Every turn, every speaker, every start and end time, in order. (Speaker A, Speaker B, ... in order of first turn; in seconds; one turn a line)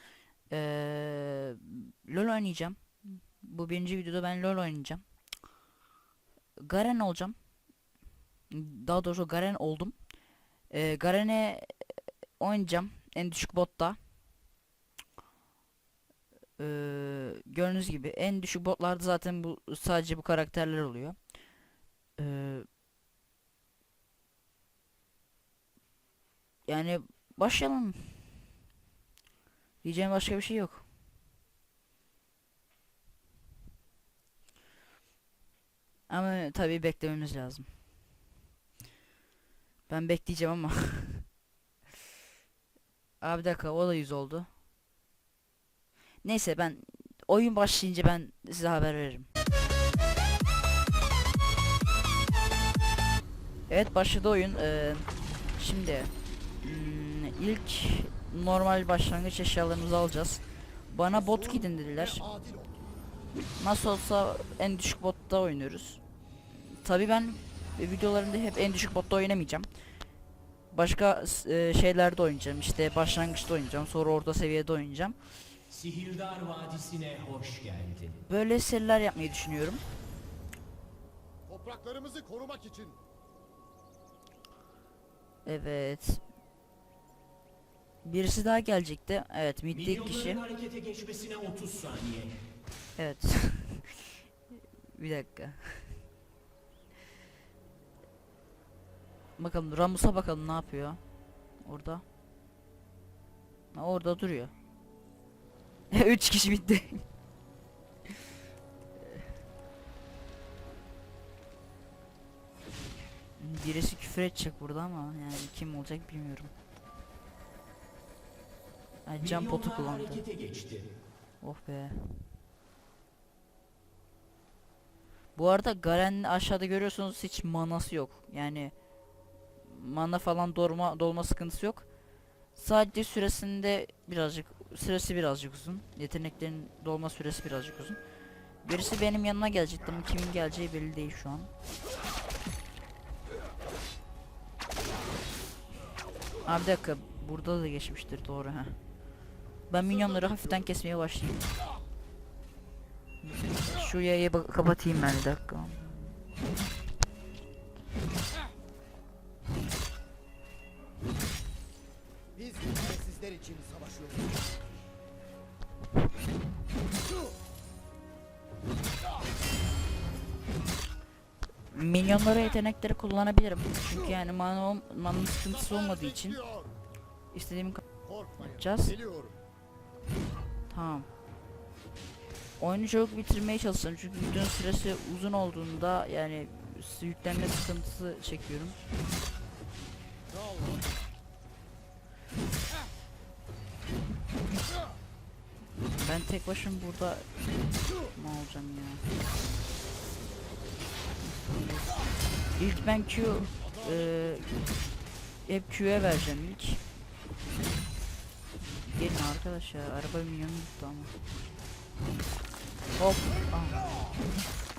Speaker A: 0.5-5.0
Speaker A: 6.6-7.4
Speaker A: 8.5-10.0
Speaker A: 10.7-14.0
Speaker A: 16.6-21.2
Speaker A: 22.2-22.7
Speaker A: 26.7-28.5
Speaker A: 29.8-30.9
Speaker A: 36.1-37.7
Speaker A: 39.9-41.3
Speaker A: 43.2-44.5
Speaker A: 46.2-49.3
Speaker A: 53.7-62.2
Speaker B: 61.2-62.8
Speaker A: 63.6-66.0
Speaker A: 66.6-69.7
Speaker A: 70.7-75.2
Speaker C: 75.7-78.2
Speaker A: 78.3-79.8
Speaker B: 81.5-83.0
Speaker A: 85.5-86.2
Speaker A: 88.0-90.5
Speaker C: 90.3-92.3
Speaker A: 93.0-94.2
Speaker A: 94.9-96.0
Speaker A: 99.4-101.0
Speaker A: 101.6-102.0
Speaker A: 103.7-104.5
Speaker A: 105.9-107.0
Speaker A: 109.0-109.2
Speaker A: 113.4-116.5
Speaker A: 119.1-120.3
Speaker C: 120.3-120.8
Speaker A: 121.4-122.3
Speaker A: 125.4-128.7
Speaker A: 129.6-131.9
Speaker A: 132.6-138.0
Speaker A: 138.6-141.5
Speaker A: 146.4-148.8
Speaker A: 149.7-151.5
Speaker A: 153.2-156.0
Speaker B: 162.3-164.4
Speaker A: 171.7-176.4
Speaker A: 177.3-177.8
Speaker A: 178.4-179.0
Speaker B: 179.0-179.3
Speaker A: 180.7-181.1
Speaker A: 182.6-188.8
Speaker B: 190.3-191.1
Speaker A: 195.9-197.3
Speaker A: 198.1-199.1
Speaker A: 201.2-201.9
Speaker A: 202.6-204.5
Speaker A: 205.5-206.8
Speaker A: 208.6-211.2
Speaker A: 213.0-213.8